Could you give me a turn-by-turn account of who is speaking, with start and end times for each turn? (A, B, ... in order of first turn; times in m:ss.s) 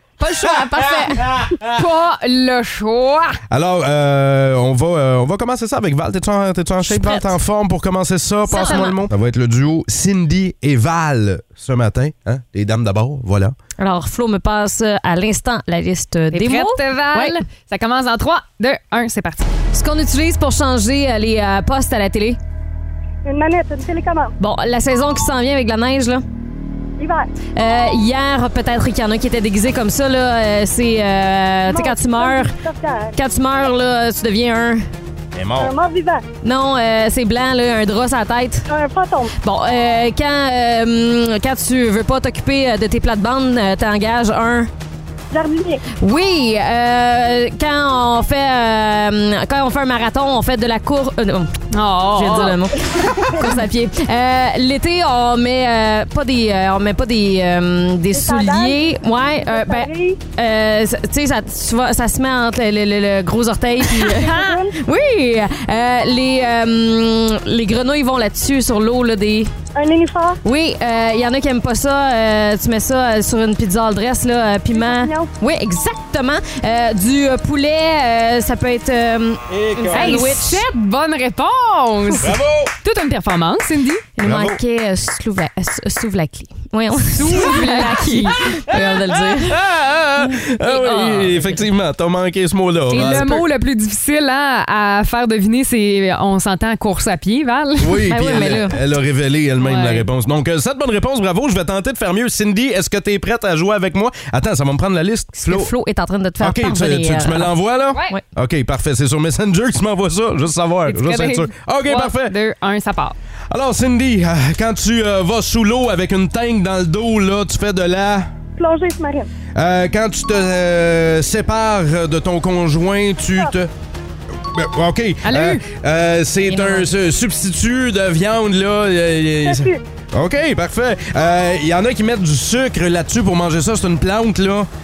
0:00.2-0:01.3 A
0:00.3-0:03.4 B
0:00.4-0:01.8 C
0:03.5-0:13.6 C
0:06.9-0:07.3 A
0:08.5-0:08.9 B
0:08.5-0:09.0 A
0:13.8-0:17.4 A
0:16.3-0:19.5 B
0:19.7-0:22.4 A
0:23.2-0:24.3 D
0:24.4-0:26.2 A
0:27.0-0:27.3 D
0:27.6-0:32.5 A
0:31.7-0:33.2 D
0:33.2-0:34.8 A
0:35.3-0:35.7 C
0:35.5-0:36.2 D
0:36.4-0:38.6 A
0:38.7-0:39.3 D
0:39.4-0:44.7 A
0:45.3-0:45.8 D
0:46.0-0:51.5 A
0:51.7-0:52.6 B
0:52.1-1:09.5 A
0:58.1-0:58.8 D
0:59.4-1:00.2 D
1:04.0-1:04.8 D
1:09.7-1:10.4 D
1:10.4-1:20.6 A
1:14.7-1:15.3 D
1:19.5-1:20.2 C
1:19.9-1:24.0 B
1:22.2-1:22.7 C
1:24.2-1:29.6 A
1:24.2-1:24.6 C
1:27.1-1:28.4 B
1:28.7-1:33.5 C
1:30.5-1:31.6 A
1:32.9-1:38.0 B
1:37.8-1:45.7 C
1:38.1-1:38.8 A
1:39.6-1:40.0 B
1:45.4-1:47.5 A
1:46.4-1:52.3 C
1:50.9-1:53.2 B
1:53.5-1:58.3 C
1:58.6-1:59.3 D
1:59.6-2:03.7 C
2:04.5-2:14.7 C
2:05.2-2:05.6 B
2:06.4-2:06.8 A
2:09.4-2:09.8 D